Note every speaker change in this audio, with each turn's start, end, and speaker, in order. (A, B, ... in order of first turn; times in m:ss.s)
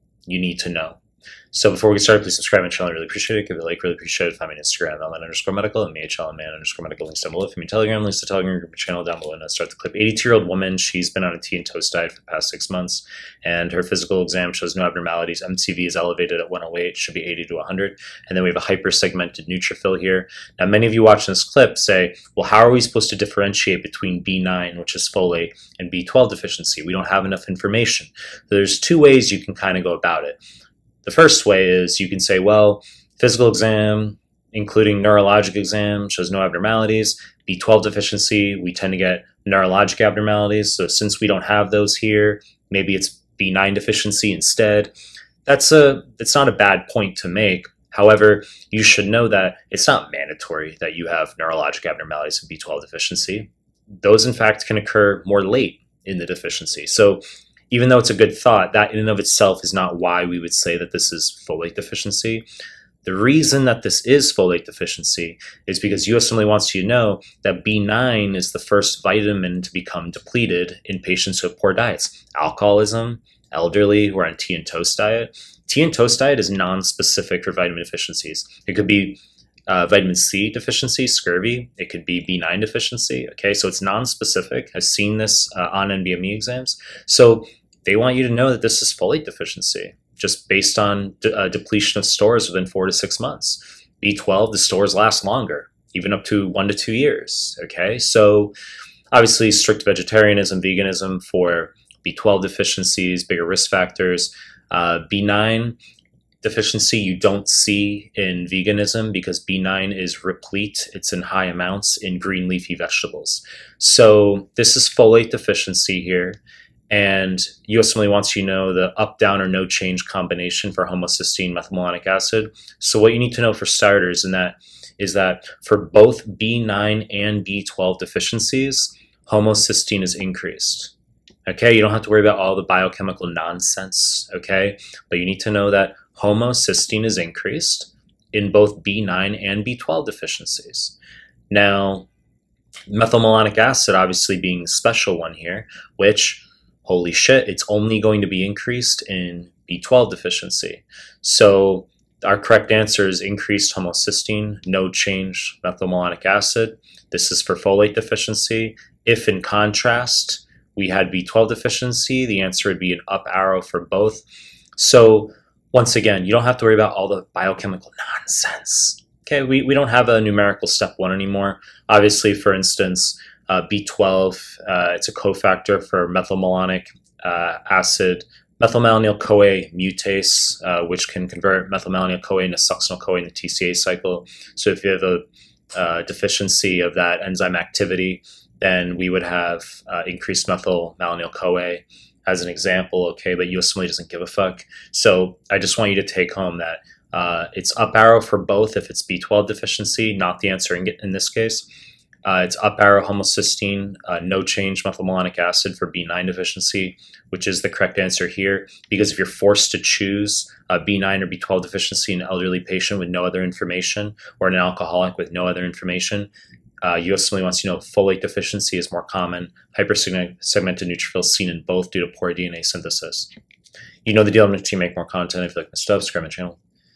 0:00.3-0:01.0 A
0:01.5-0:30.4 A
0:31.0-0:44.9 A
0:45.4-0:53.5 A
0:54.0-1:02.4 A
1:03.0-1:38.5 A
1:39.1-1:45.8 A
1:46.4-1:56.4 A
1:56.9-2:10.9 A
2:11.4-2:21.0 A
2:21.5-2:22.1 A
2:22.9-2:44.2 A
2:44.8-3:21.7 A
3:22.2-3:36.3 A
3:36.8-3:43.3 A
3:44.0-3:46.6 A